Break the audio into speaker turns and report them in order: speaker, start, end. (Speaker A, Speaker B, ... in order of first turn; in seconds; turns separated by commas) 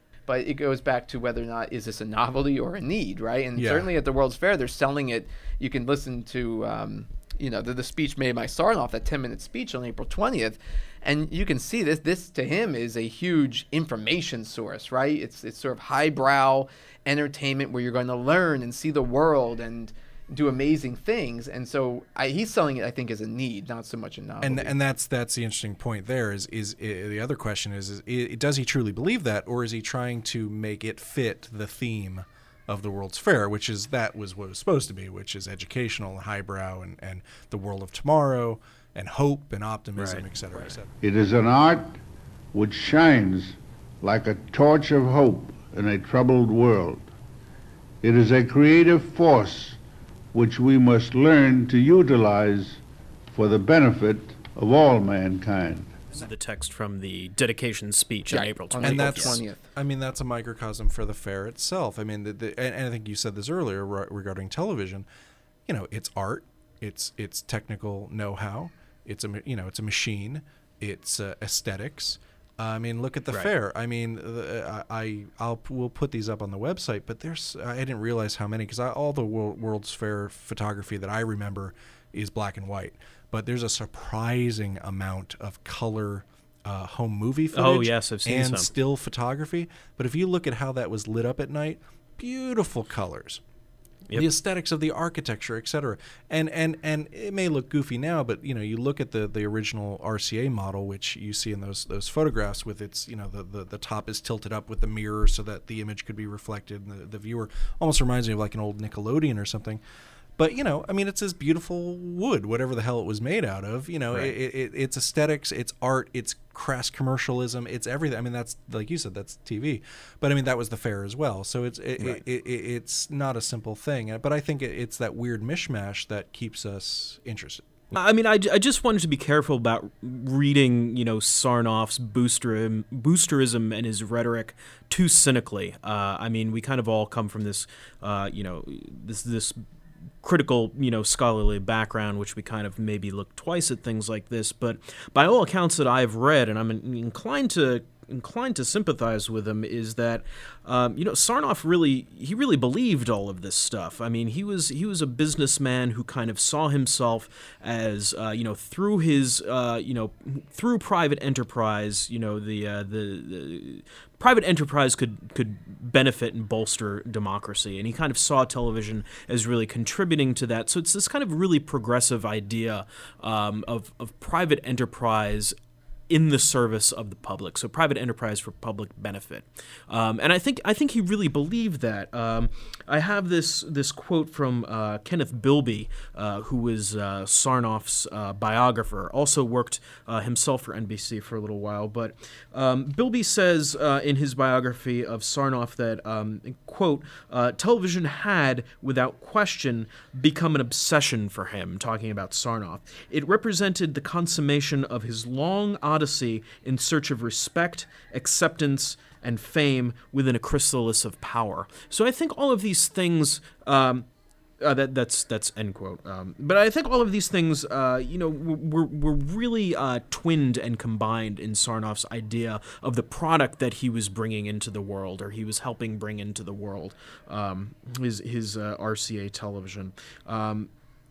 Speaker A: 0.3-24.7, Speaker B: 3.5-3.9, Speaker B: 24.4-40.9, Speaker C: 40.0-40.6, Speaker D: 41.0-42.0, Speaker D: 42.5-47.1, Speaker D: 48.0-49.8, Speaker D: 50.3-52.8, Speaker D: 53.3-56.0, Speaker C: 56.1-59.4, Speaker A: 58.3-59.6, Speaker B: 58.8-65.0, Speaker B: 65.7-93.4, Speaker C: 87.5-88.7, Speaker B: 94.1-109.8, Speaker B: 110.4-127.9, Speaker C: 127.9-139.6, Speaker C: 140.2-175.5, Speaker C: 176.1-214.1, Speaker C: 214.6-230.7